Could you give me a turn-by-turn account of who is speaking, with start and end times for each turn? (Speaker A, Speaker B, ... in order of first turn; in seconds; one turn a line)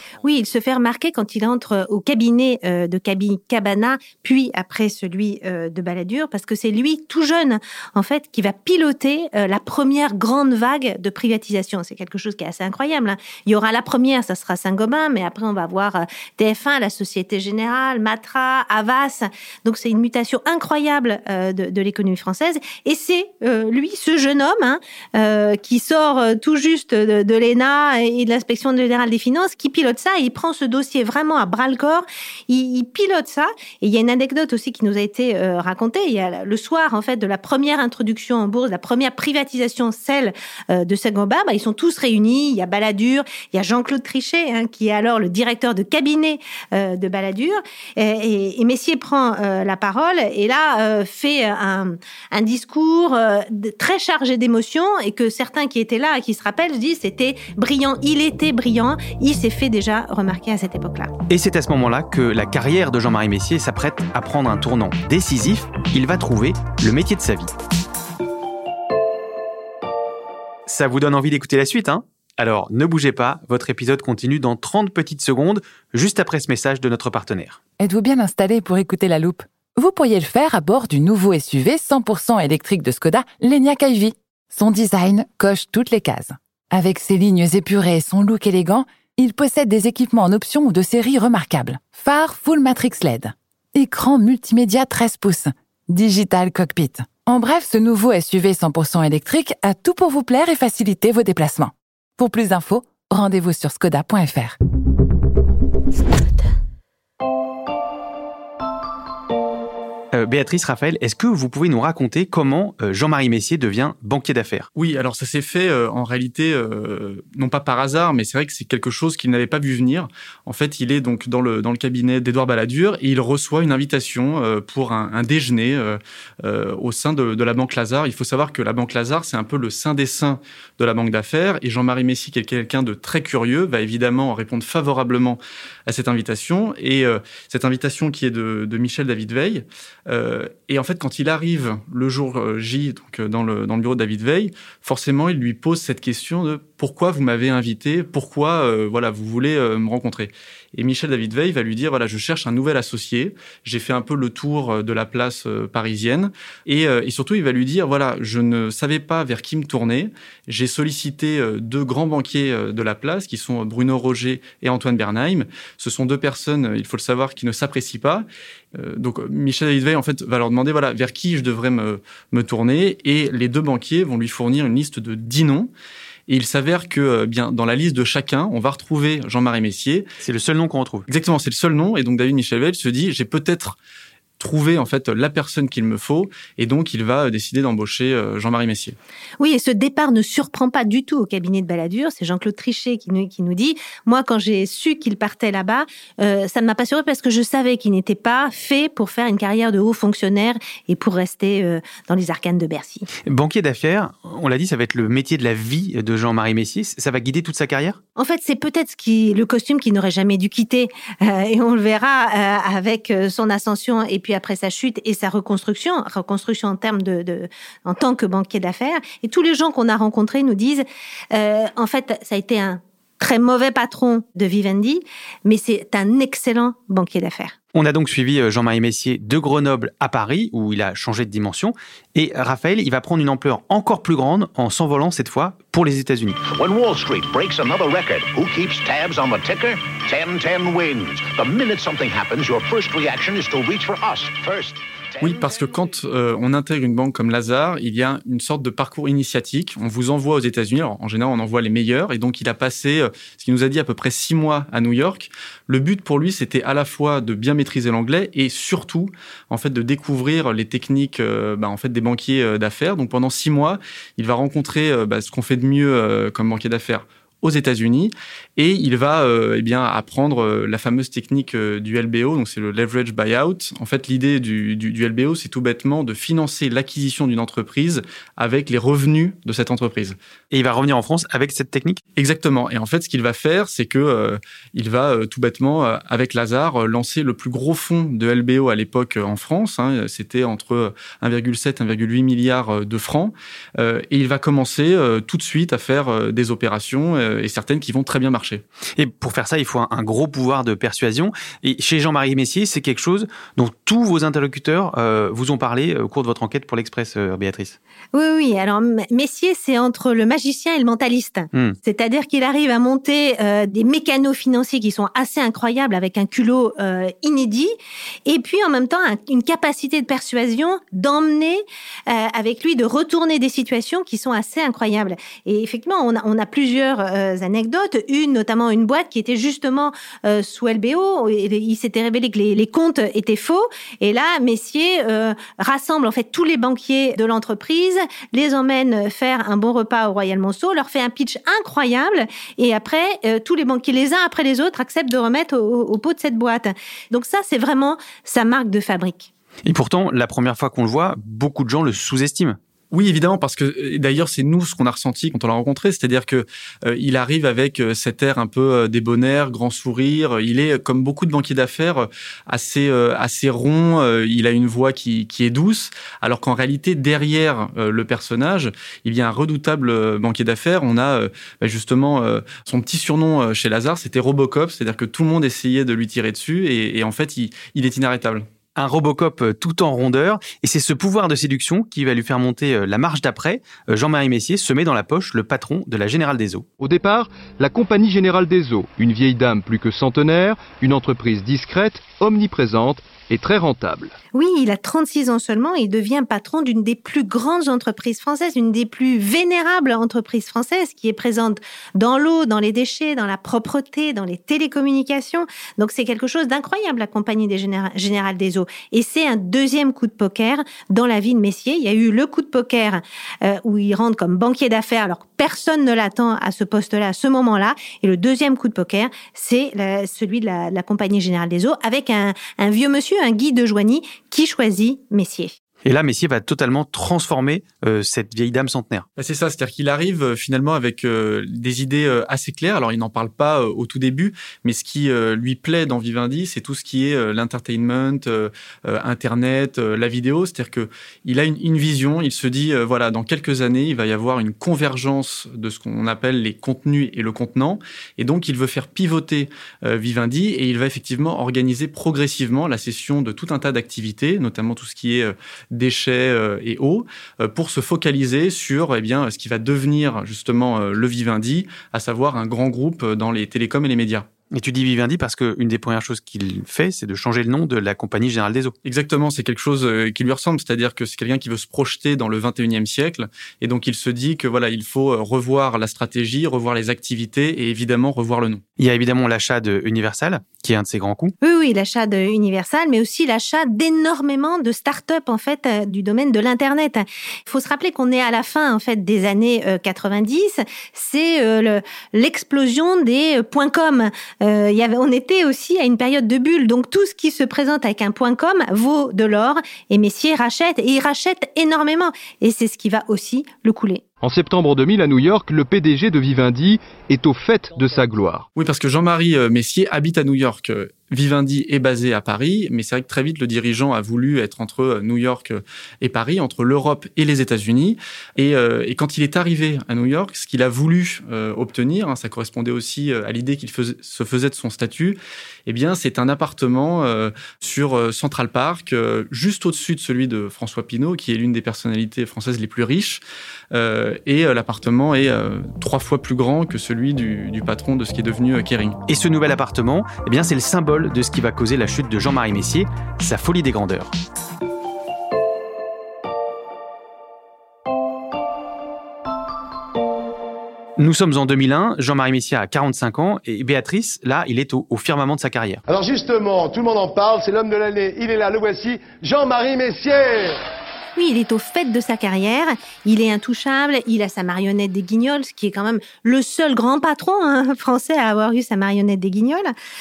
Speaker A: 0.2-61.1
Speaker B: 61.3-67.5
Speaker B: 70.7-77.6
Speaker C: 77.8-104.5
Speaker B: 110.1-114.7
Speaker D: 114.8-175.7
Speaker D: 176.3-180.1
Speaker B: 180.2-181.1
Speaker D: 181.1-183.8
Speaker D: 184.4-188.9
Speaker A: 189.4-203.1
Speaker B: 203.3-208.0
Speaker A: 208.2-227.5
Speaker B: 227.7-236.4
Speaker E: 236.4-245.4
Speaker D: 245.2-280.1
Speaker B: 280.5-282.0
Speaker D: 282.1-298.6
Speaker B: 299.0-307.8
Speaker A: 308.1-317.7
Speaker A: 318.2-349.3
Speaker B: 349.6-352.6
Speaker D: 352.9-378.4
Speaker B: 378.8-386.6
Speaker F: 386.8-394.1
Speaker A: 394.3-425.5
Speaker B: 425.8-429.1
Speaker D: 429.2-464.2
Speaker B: 464.5-468.7
Speaker D: 468.8-478.6
Speaker B: 478.8-481.3
Speaker A: 481.4-504.0
Speaker F: 504.2-508.4
Speaker D: 508.5-533.2
Speaker D: 533.7-539.0
Speaker B: 539.1-544.1
Speaker B: 551.0-555.8
Speaker G: 555.9-560.6
Speaker A: 561.1-569.7